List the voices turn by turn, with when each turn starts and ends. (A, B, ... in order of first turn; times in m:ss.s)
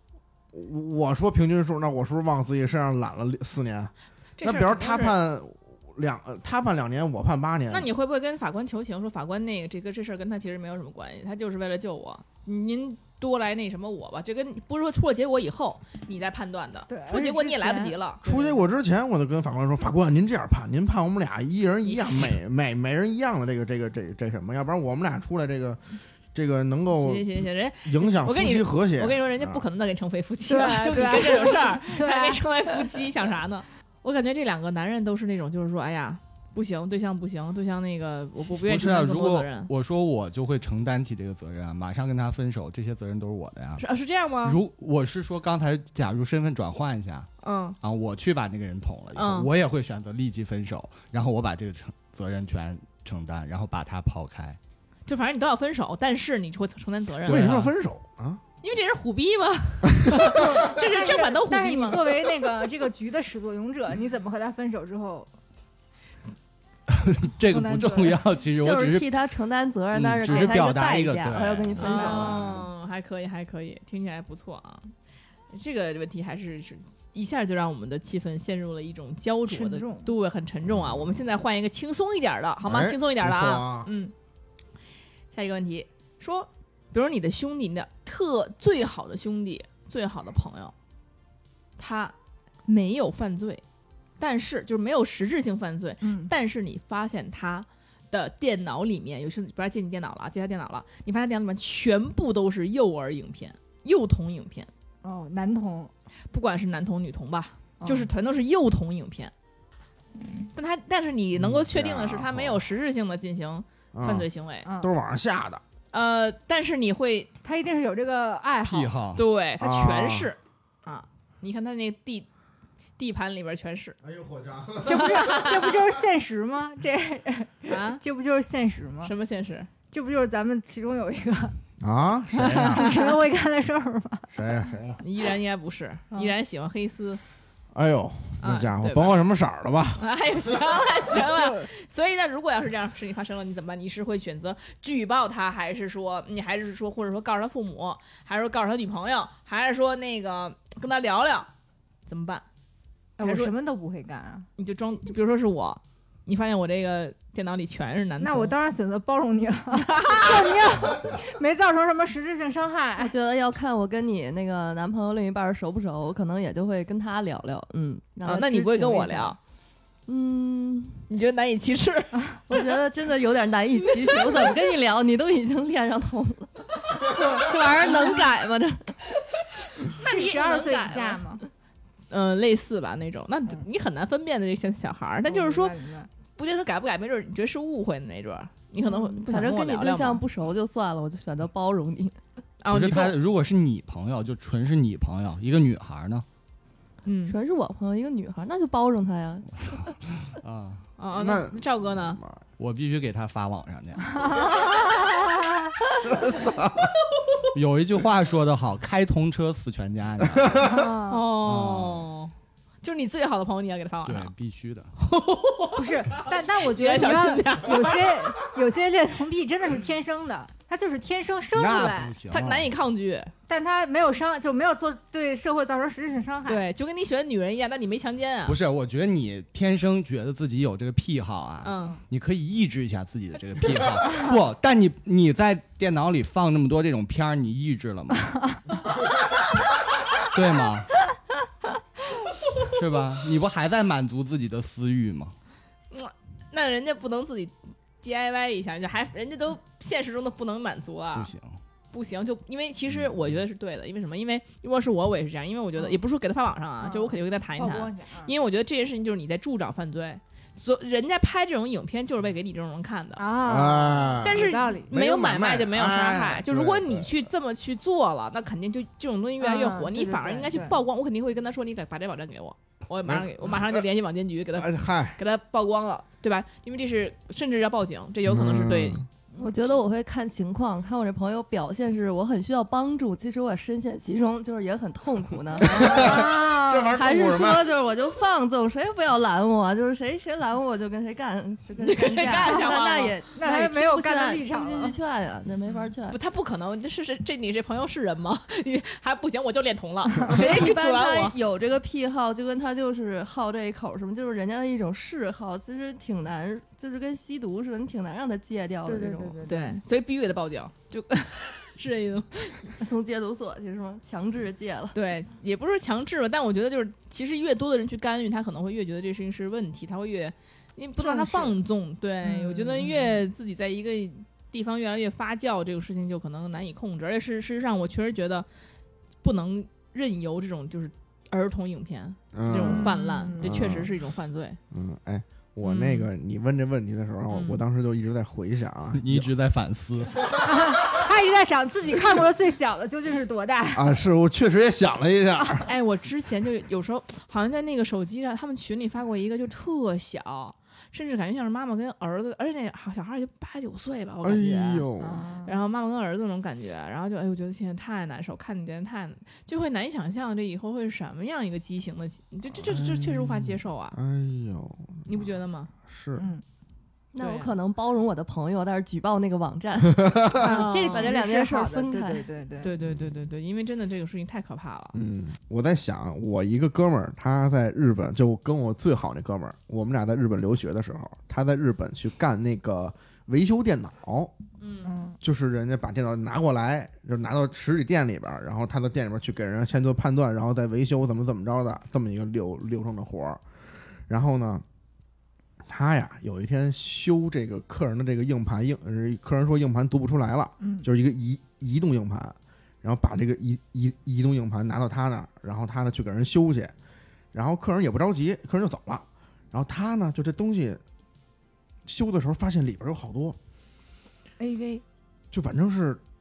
0:00.5-0:07.9 A
0:04.4-0:05.2 B
0:07.7-0:18.2 B
0:16.9-0:18.6 C
0:18.2-0:25.8 A
0:21.8-0:22.4 B
0:26.3-0:29.6 A
0:26.9-0:39.7 B
0:30.5-0:32.4 C
0:38.6-0:43.8 D
0:43.8-0:44.6 B
0:44.4-0:47.3 D
0:47.4-0:47.8 B
0:47.8-0:54.6 D
0:49.2-0:49.5 B
0:55.1-0:57.6 B
0:57.3-0:57.7 D
0:57.3-0:58.4 A
0:58.6-1:02.3 B
1:00.3-1:05.3 C
1:06.9-1:09.1 D
1:07.5-1:08.2 C
1:08.6-1:12.6 E
1:09.9-1:12.2 D
1:10.2-1:10.6 B
1:11.8-1:14.9 B
1:11.9-1:12.4 C
1:15.5-1:24.1 B
1:19.5-1:20.1 C
1:22.6-1:23.9 A
1:25.3-1:30.7 B
1:31.8-1:32.1 B
1:32.7-1:33.6 B
1:34.2-1:44.7 B
1:36.0-1:36.3 C
1:45.0-1:45.9 C
1:46.3-1:49.3 B
1:47.8-1:48.1 C
1:50.2-1:50.5 C
1:50.6-1:54.7 B
1:51.4-1:52.6 A
1:53.9-1:54.3 A
1:54.6-1:54.9 C
1:54.8-1:55.6 A
1:55.9-1:57.3 B
1:57.4-1:58.9 C
1:58.6-1:59.2 D
1:59.2-2:02.3 B
1:59.6-2:00.3 A
2:03.0-2:04.0 B
2:04.0-2:05.4 A
2:04.8-2:09.1 C
2:05.0-2:05.7 B
2:07.7-2:08.0 B
2:09.0-2:09.7 B
2:09.9-2:11.6 C
2:11.8-2:12.9 A
2:12.3-2:14.3 C
2:14.3-2:15.0 A
2:15.0-2:17.2 B
2:17.7-2:20.0 A
2:18.4-2:19.2 B
2:20.0-2:31.5 B
2:21.2-2:21.7 C
2:32.1-2:32.4 B
2:33.2-2:34.5 C
2:33.2-2:33.5 B
2:34.6-2:38.5 B
2:38.2-2:43.1 C
2:40.0-2:40.5 B
2:43.0-2:49.4 E
2:48.2-2:49.4 B
2:50.1-2:51.0 E
2:51.1-2:52.7 B
2:52.5-2:59.0 E
2:53.9-2:54.6 B
2:59.8-3:01.2 E
3:00.0-3:01.4 C
3:02.1-3:05.8 B
3:05.3-3:06.1 C
3:06.4-3:10.2 B
3:09.0-3:12.2 E
3:12.6-3:13.2 B
3:12.7-3:16.3 D
3:17.0-3:17.4 B
3:17.3-3:19.9 E
3:19.7-3:20.8 D
3:21.0-3:22.2 B
3:21.2-3:22.4 A
3:22.6-3:24.6 D
3:24.2-3:24.6 C
3:26.1-3:26.9 A
3:27.5-3:30.7 D
3:30.6-3:31.3 C
3:30.6-3:34.3 B
3:31.4-3:32.1 D
3:34.0-3:34.9 D
3:35.0-3:38.2 B
3:35.8-3:42.2 C
3:41.5-3:42.7 D
3:42.3-3:43.3 B
3:43.5-3:46.6 C
3:46.5-3:48.6 B
3:48.5-3:58.6 D
3:51.6-3:52.0 B
4:00.2-4:00.9 D
4:02.7-4:05.3 D
4:05.9-4:11.3 B
4:11.1-4:11.6 D
4:11.9-4:23.2 B
4:16.8-4:18.3 C
4:23.2-4:24.9 C
4:23.4-4:27.1 A
4:24.2-4:39.0 B
4:29.4-4:30.8 C
4:33.1-4:33.8 A
4:34.6-4:35.2 A
4:38.3-4:39.1 A
4:39.4-4:56.2 E
4:45.6-4:47.7 A
4:45.7-4:47.0 C
4:51.8-4:53.2 B
4:53.3-4:55.0 C
4:56.1-5:01.4 B
5:00.1-5:00.4 C
5:00.3-5:09.4 E
5:08.8-5:09.8 C
5:09.5-5:12.7 B
5:12.8-5:15.0 E
5:14.9-5:28.5 B
5:21.0-5:21.6 C
5:22.2-5:23.2 C
5:29.2-5:34.6 B
5:32.3-5:33.9 A
5:32.6-5:33.6 C
5:34.7-5:39.3 A
5:35.6-5:36.1 B
5:37.3-5:37.6 B
5:38.9-5:40.2 D
5:40.4-5:44.0 C
5:43.7-5:45.7 A
5:45.6-5:54.9 B
5:54.2-5:55.2 A
5:55.0-5:55.5 C
5:55.4-6:04.0 B
6:02.5-6:05.2 A
6:05.1-6:05.7 B
6:05.9-6:06.3 A
6:06.2-6:06.4 C
6:07.1-6:12.3 E
6:07.2-6:07.5 B
6:09.9-6:10.3 A
6:10.4-6:12.7 C
6:10.5-6:11.2 B
6:12.6-6:15.0 B
6:14.9-6:24.3 A
6:24.6-6:24.9 B
6:24.8-6:25.2 C
6:25.2-6:33.4 A
6:34.1-6:34.6 A
6:35.7-6:46.7 A
6:40.6-6:40.9 C
6:47.3-6:50.8 A
6:51.9-6:53.4 A
6:54.4-6:54.8 C
6:55.3-6:56.0 A